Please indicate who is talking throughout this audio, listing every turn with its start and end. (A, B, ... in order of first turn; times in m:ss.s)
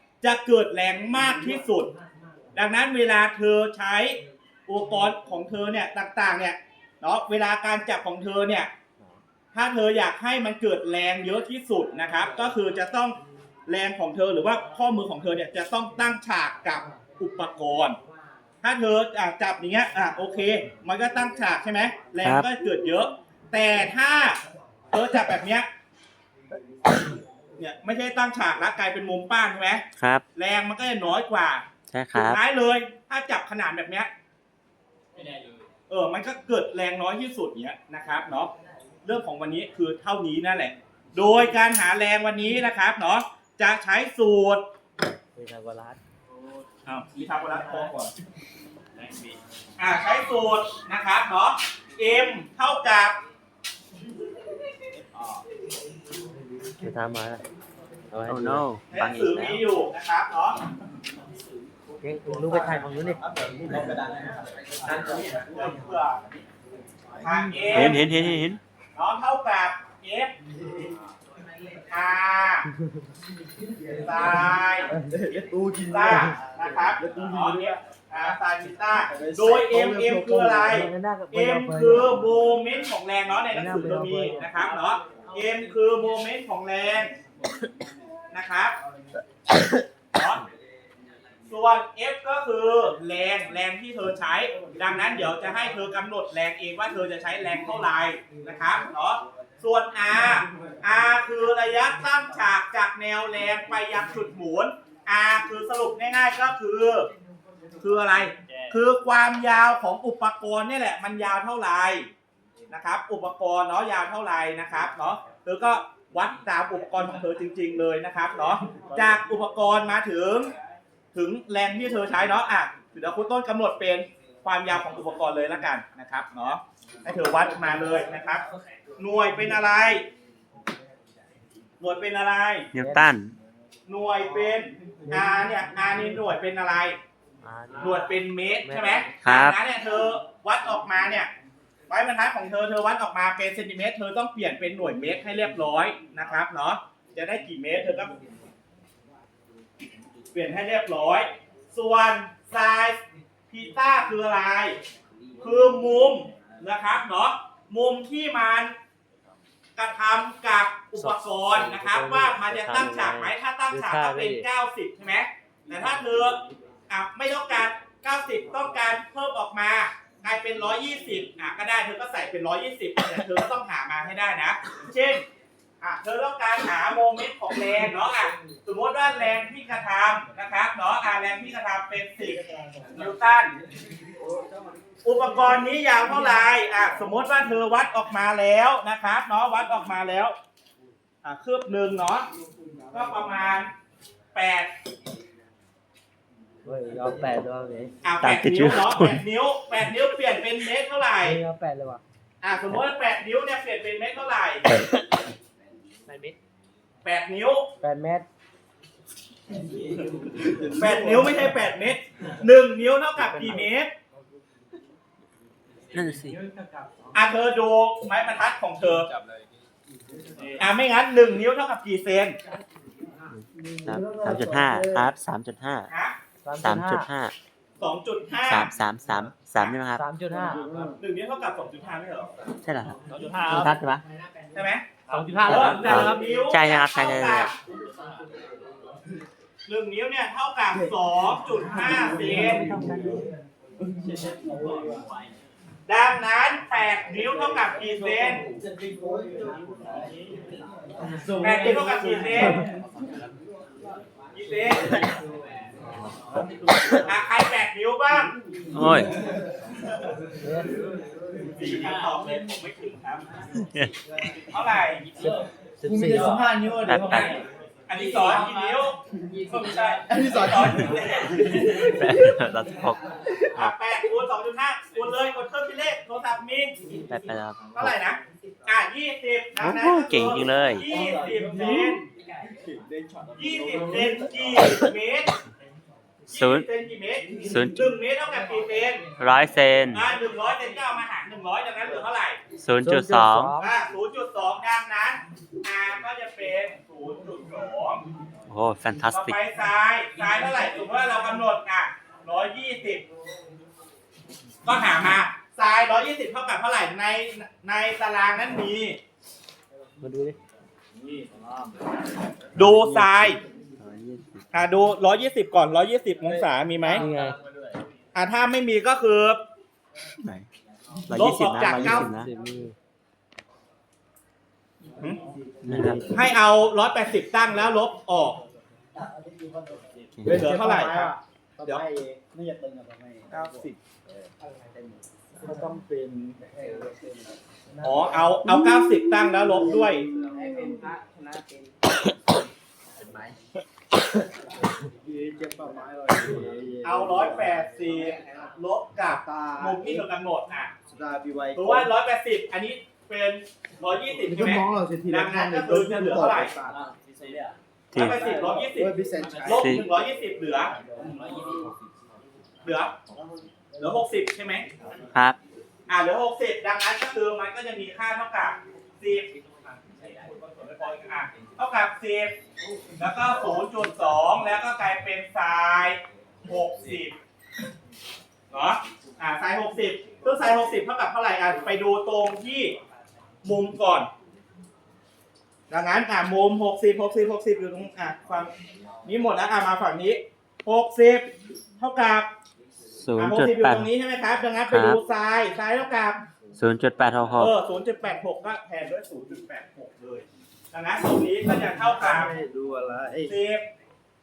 0:00.2-0:01.9 A
0:02.5-0:08.7 A
0:09.5-0:18.0 A
0:18.6-0:24.4 A
0:22.2-0:22.5 B
0:24.9-0:25.7 A
0:27.6-0:29.8 A
0:30.0-0:30.2 B
0:30.3-0:34.1 A
0:31.9-0:32.4 B
0:35.9-0:38.5 A
0:39.0-0:44.6 A
0:45.4-0:46.0 C
0:46.8-0:48.1 A
0:49.8-0:53.2 A
0:56.8-0:57.4 C
0:58.1-0:58.6 C
0:58.3-0:59.6 B
0:58.9-1:00.6 A
1:02.0-1:03.2 C
1:02.5-1:05.2 D
1:05.2-1:06.2 A
1:07.2-1:08.0 A
1:07.6-1:07.9 C
1:07.7-1:08.6 B
1:08.9-1:10.3 A
1:11.9-1:12.7 A
1:14.0-1:14.9 A
1:15.1-1:17.8 D
1:15.9-1:27.1 A
1:19.1-1:20.8 D
1:20.7-1:22.2 C
1:23.5-1:24.6 C
1:28.3-1:28.8 A
1:30.1-1:30.4 A
1:31.5-1:47.1 A
1:47.8-1:52.1 A
1:52.7-2:00.5 A
2:01.1-2:08.4 A
2:09.0-2:10.0 A
2:11.8-2:12.7 A
2:12.7-2:13.3 B
2:12.8-2:13.0 C
2:13.9-2:17.0 A
2:15.1-2:15.3 C
2:17.4-2:18.1 C
2:17.8-2:21.3 A
2:18.6-2:19.1 C
2:19.2-2:19.6 B
2:21.9-2:28.2 A
2:30.3-2:34.8 A
2:35.4-2:38.7 A
2:39.8-2:55.2 A
2:41.0-2:44.4 C
2:55.8-3:03.5 A
3:05.0-3:10.3 A
3:11.2-3:12.3 A
3:12.9-3:13.7 A
3:14.3-3:14.7 A
3:16.6-3:17.9 C
3:18.0-3:21.4 A
3:18.2-3:19.2 B
3:21.2-3:22.0 C
3:22.4-3:24.6 A
3:24.7-3:24.9 B
3:27.0-3:27.7 A
3:27.8-3:28.3 C
3:30.3-3:31.5 D
3:30.7-3:33.9 A
3:33.2-3:33.6 C
3:35.9-3:36.4 B
3:37.1-3:39.1 A
3:40.6-3:42.4 A
3:43.3-3:45.9 B
3:45.9-3:46.1 A
3:46.4-3:47.1 C
3:46.6-3:47.3 B
3:47.8-3:48.7 A
3:48.4-3:50.0 B
3:49.9-3:50.7 C
3:50.3-3:51.0 D
3:51.0-3:52.3 A
3:52.6-3:54.0 B
3:54.5-3:57.6 A
3:55.1-3:56.2 C
3:55.4-3:57.5 B
3:59.6-4:02.6 A
4:01.7-4:03.2 D
4:02.2-4:03.2 C
4:03.8-4:05.0 D
4:05.9-4:08.4 A
4:08.8-4:10.1 D
4:11.0-4:12.7 D
4:11.4-4:12.6 A
4:14.3-4:15.1 A
4:16.9-4:18.3 A
4:18.7-4:19.1 B
4:20.4-4:20.8 C
4:21.5-4:23.3 A
4:23.6-4:23.9 B
4:24.5-4:25.1 A
4:25.2-4:26.6 C
4:25.9-4:27.3 D
4:26.7-4:27.4 B
4:27.9-4:31.9 A
4:30.1-4:32.3 D
4:31.7-4:33.7 B
4:33.5-4:36.7 A
4:37.1-4:37.9 B
4:37.7-4:42.0 A
4:39.6-4:40.9 B
4:40.9-4:44.9 D
4:43.3-4:45.3 A
4:46.3-4:46.7 B
4:46.3-4:49.0 A
4:47.4-4:47.8 B
4:49.2-4:50.0 B
4:49.9-4:52.4 A
4:52.6-4:53.5 B
4:52.8-4:53.7 C
4:53.6-4:58.0 A
4:58.5-4:59.4 B
4:59.1-5:03.0 A
5:04.6-5:09.0 A
5:10.0-5:10.4 C
5:11.0-5:11.5 D
5:12.6-5:13.4 A
5:12.6-5:13.3 D
5:13.8-5:14.4 B
5:14.5-5:17.0 A
5:16.2-5:17.3 D
5:16.9-5:17.4 C
5:18.1-5:19.4 A
5:20.2-5:20.5 B
5:21.1-5:22.3 B
5:21.1-5:22.1 A
5:21.7-5:22.7 C
5:25.2-5:26.2 D
5:25.6-5:26.0 B
5:26.1-5:28.4 A
5:29.0-5:33.7 D
5:30.2-5:31.1 A
5:33.3-5:33.8 A
5:34.7-5:37.3 D
5:37.8-5:40.1 A
5:39.4-5:40.8 D
5:44.9-5:47.6 D
5:46.8-5:50.7 A
5:49.1-5:50.0 D
5:50.9-5:51.9 D
5:51.5-5:56.5 A
5:54.3-5:56.9 D
5:57.9-5:58.2 B
5:57.9-6:00.7 A
5:58.2-5:59.8 D
5:59.4-5:59.8 B
6:01.0-6:01.5 D
6:02.6-6:02.9 A
6:03.1-6:03.4 D
6:03.8-6:04.6 A
6:05.9-6:12.3 A
6:13.0-6:17.2 A
6:18.5-6:22.7 A
6:23.4-6:24.1 A
6:25.7-6:28.5 A
6:29.0-6:32.3 A
6:33.0-6:33.9 B
6:33.2-6:36.2 A
6:34.7-6:35.0 B
6:36.6-6:37.5 B
6:37.4-6:42.3 A
6:42.0-6:43.3 D
6:43.2-6:43.6 A